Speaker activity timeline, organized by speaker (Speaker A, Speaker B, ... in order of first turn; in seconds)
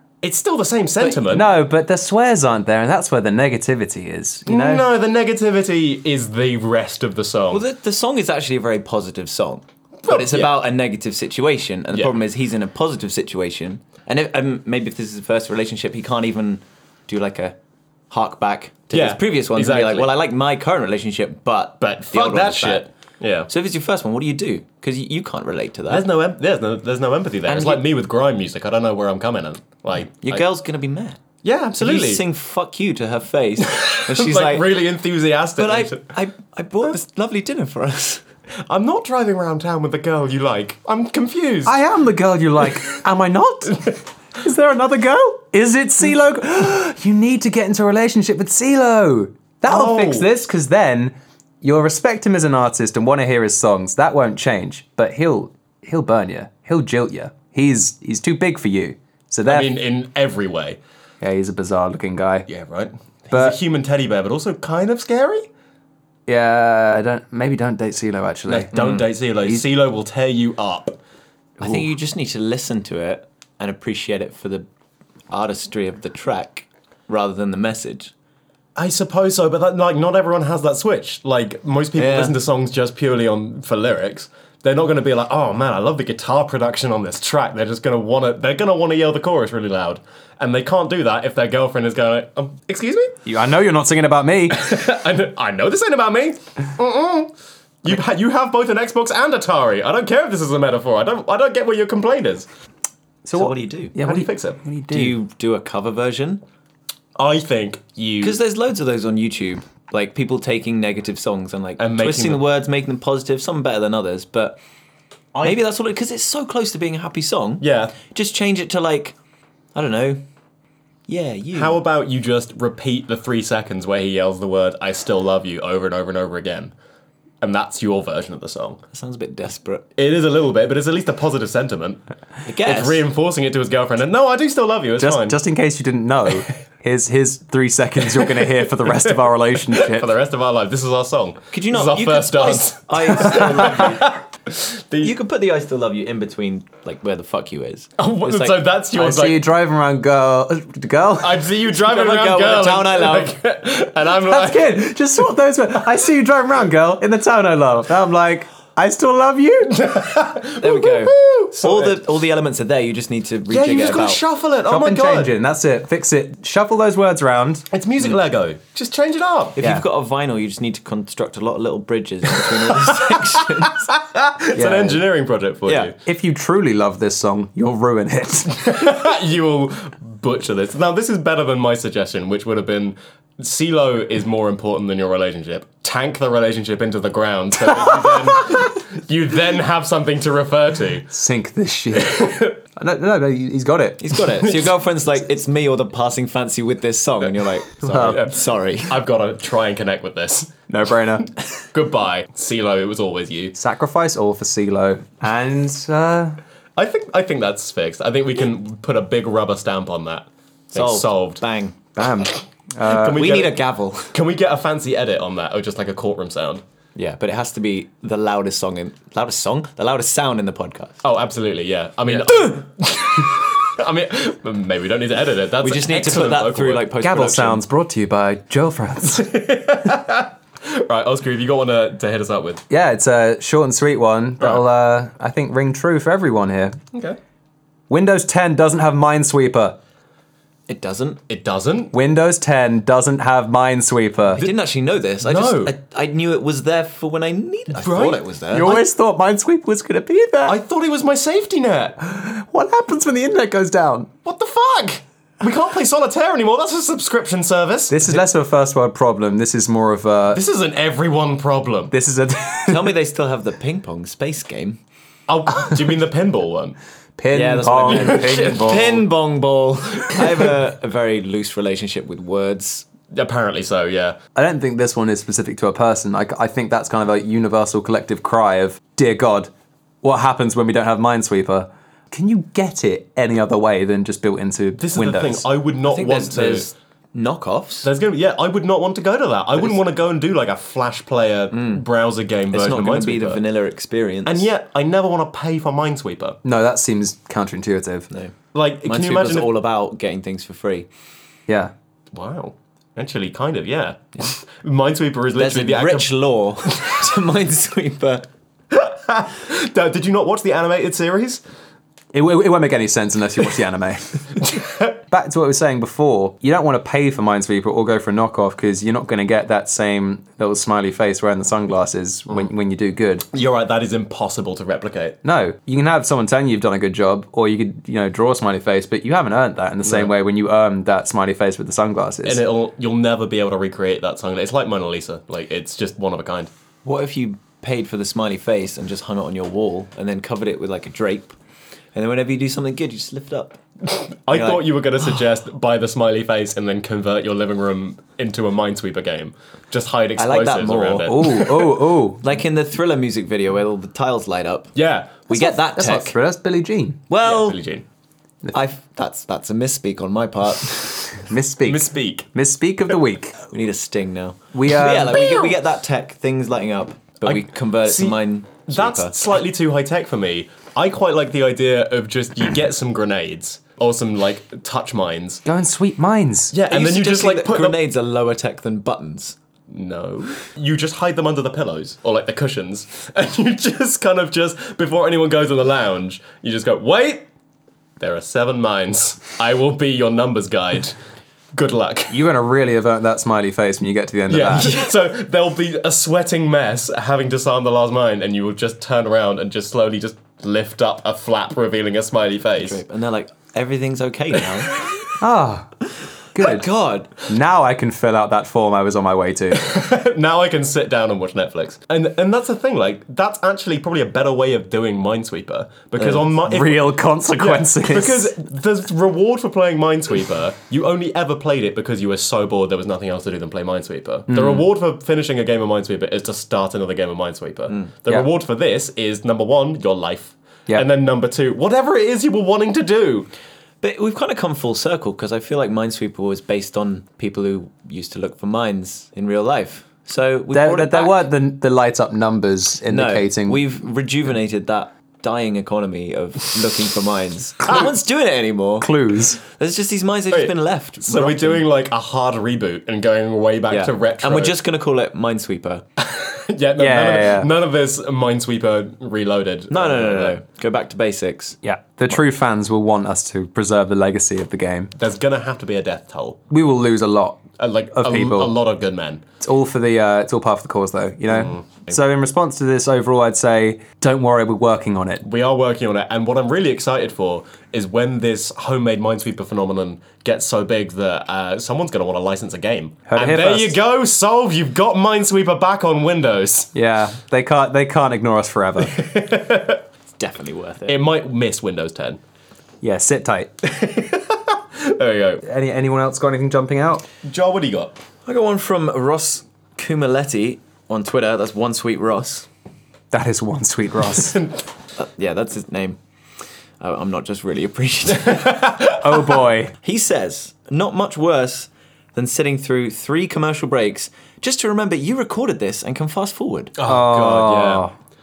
Speaker A: 0.2-1.5, 4.5-7.6, 10.0-10.6, 11.9-12.2, 18.9-20.1, 21.8-23.5, 25.9-30.4, 31.4-32.2, 33.6-36.1, 38.7-41.8, 49.6-50.3, 59.5-60.8, 62.5-65.5, 68.5-71.0, 78.8-93.2, 94.5-97.3, 97.8-102.5, 104.0-104.6, 107.2-108.4, 111.8-112.4, 117.6-117.9, 121.5-126.7, 127.4-128.8, 130.0-132.0, 132.6-135.4, 138.4-139.1, 139.7-145.1, 148.0-149.4, 151.2-154.9, 159.7-162.0, 163.5-165.3, 167.7-169.6, 172.5-175.9, 178.6-191.1, 192.1-192.5, 197.8-200.7, 201.6-203.5, 206.8-211.4, 212.8-216.6, 221.0-226.9, 229.1-232.6, 241.3-241.9, 245.2-245.7, 247.8-248.8, 250.5-252.0, 254.2-258.0, 260.3-261.9, 265.3-266.8, 267.6-269.0, 273.1-274.2, 284.8-286.7, 287.8-293.4, 294.2-296.4, 298.5-299.5, 302.1-306.1, 308.7-311.4, 323.3-325.2, 329.8-330.1, 332.2-336.5, 343.9-351.6, 354.7-355.2, 357.2-357.8, 361.6-362.3, 365.1-365.5, 367.2-375.4, 376.5-377.8, 379.7-387.3, 388.0-390.9, 391.5-392.2, 394.3-402.8, 409.5-433.3, 450.3-454.6, 456.0-460.4, 464.9-466.4, 467.6-469.2, 471.3-471.8, 475.2-486.7, 488.9-489.8, 490.9-492.2, 493.6-495.4, 497.2-498.0, 504.1-504.6, 508.2-509.4, 516.8-517.9
Speaker B: 1.2-4.8, 41.6-59.7, 61.2-62.5, 63.3-63.6, 66.3-68.8, 93.2-94.6, 103.2-105.2, 135.0-140.1, 143.4-143.7, 148.9-151.5, 154.2-159.8, 164.7-167.7, 169.6-169.8, 174.5-175.0, 176.1-178.9, 191.1-194.2, 197.8-198.2, 200.7-201.3, 203.5-206.4, 211.9-213.3, 227.0-229.3, 232.7-236.8, 237.9-239.8, 241.9-244.4, 248.5-250.6, 252.0-254.1, 257.9-260.4, 261.9-263.0, 267.2-269.0, 274.3-279.5, 280.0-285.4, 296.4-298.1, 301.5-301.7, 312.1-314.4, 315.0-323.2, 325.2-332.4, 351.1-352.2, 355.3-357.0, 361.2-363.4, 364.5-365.3, 375.4-376.5, 392.1-394.8, 405.2-405.7, 406.3-406.7, 407.2-409.7, 416.4-418.3, 424.3-424.6, 440.5-443.6, 448.8-449.4, 456.8-457.5, 461.6-464.9, 466.5-468.5, 469.4-475.2, 483.1-483.8, 486.7-489.0, 492.8-493.5, 495.4-497.1, 503.1-504.4, 509.0-509.7, 516.8-517.9
Speaker C: 7.5-17.6, 18.1-22.9, 23.5-26.1, 27.4-27.8, 30.2-31.2, 31.8-34.8, 35.6-38.2, 68.7-69.0, 71.6-74.7, 75.3-78.1, 82.0-82.3, 103.3-104.0, 104.9-106.4, 108.2-114.6, 115.4-119.2, 119.7-120.2, 121.1-121.8, 128.9-129.8, 132.4-133.1, 141.5-144.1, 145.0-148.6, 151.7-153.3, 160.6-164.2, 169.6-173.9, 175.7-175.9, 194.0-199.0, 210.7-211.8, 213.1-214.1, 216.9-221.0, 225.6-227.6, 240.7-241.2, 244.3-248.8, 262.7-264.8, 267.3-272.8, 285.8-287.9, 291.5-291.8, 292.5-294.5, 298.8-300.9, 305.4-308.3, 336.8-341.3, 341.9-343.6, 344.3-344.8, 350.2-351.6, 352.2-354.7, 355.3-356.1, 357.1-357.6, 358.5-361.2, 363.5-369.2, 376.7-379.4, 402.6-404.8, 406.4-407.1, 433.8-441.2, 442.9-448.9, 449.4-451.6, 453.7-455.8, 459.7-461.6, 490.2-491.0, 498.2-502.5, 505.0-506.0, 506.8-508.7, 509.8-516.7